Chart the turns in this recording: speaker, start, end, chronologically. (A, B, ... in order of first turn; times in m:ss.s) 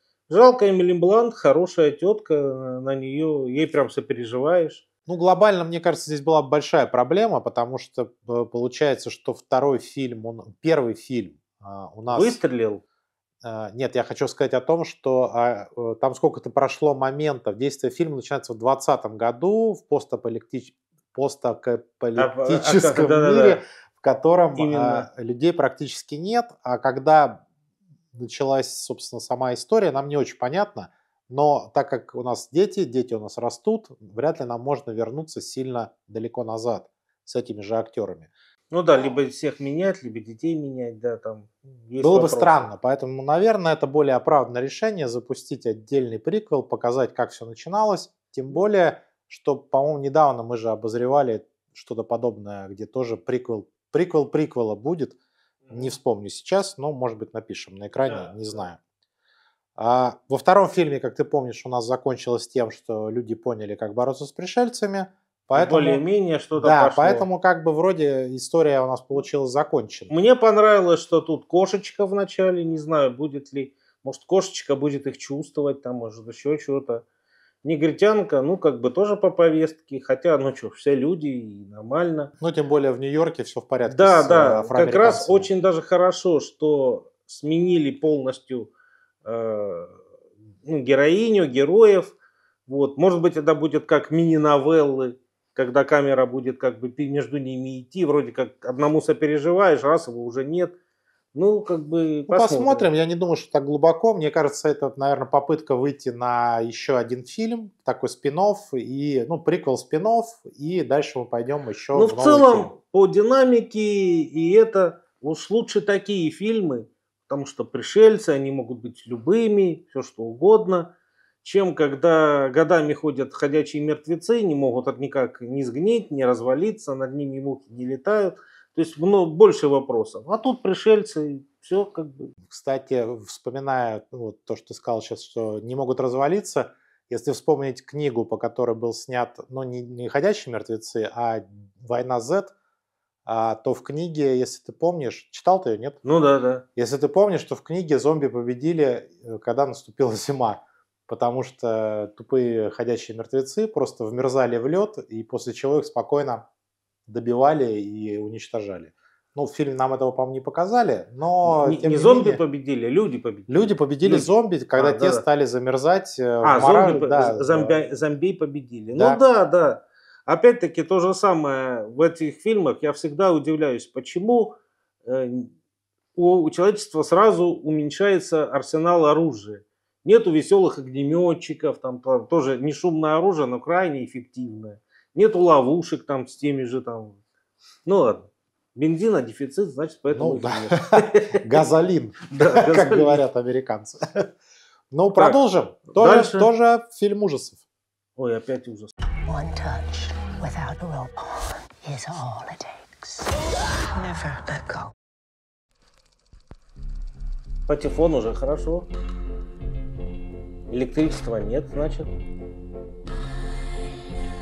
0:00.3-0:04.8 A
0:05.1-0:12.4 B
0:12.1-0:12.8 A
0:13.4-0:27.4 B
0:22.2-0:23.6 A
0:24.6-0:25.1 A
0:28.1-0:38.3 B
0:38.7-0:42.6 A
0:42.0-0:55.2 B
0:55.7-0:58.8 B
0:58.0-0:58.3 A
0:59.8-1:06.0 B
1:05.5-1:07.2 A
1:06.6-1:10.1 B
1:10.1-1:17.0 A
1:17.6-1:22.3 A
1:22.4-1:25.5 B
1:23.9-1:28.7 A
1:29.2-1:30.0 A
1:30.6-1:32.1 A
1:32.7-1:40.7 A
1:41.3-1:42.9 A
1:42.3-1:52.7 B
1:51.9-2:12.3 A
2:12.4-2:22.5 B
2:23.2-2:26.0 B
2:26.0-2:26.6 A
2:26.8-2:36.4 B
2:37.1-2:42.4 B
2:41.4-2:45.2 A
2:43.5-2:47.8 B
2:46.4-2:55.5 A
2:49.0-2:49.2 B
2:56.2-3:07.2 A
3:07.8-3:11.4 A
3:10.1-3:14.3 B
3:12.3-3:13.2 A
3:14.9-3:17.6 B
3:15.9-3:16.5 A
3:18.2-3:18.9 A
3:19.3-3:23.3 C
3:23.9-3:24.9 C
3:27.7-3:28.9 A
3:30.7-3:32.1 A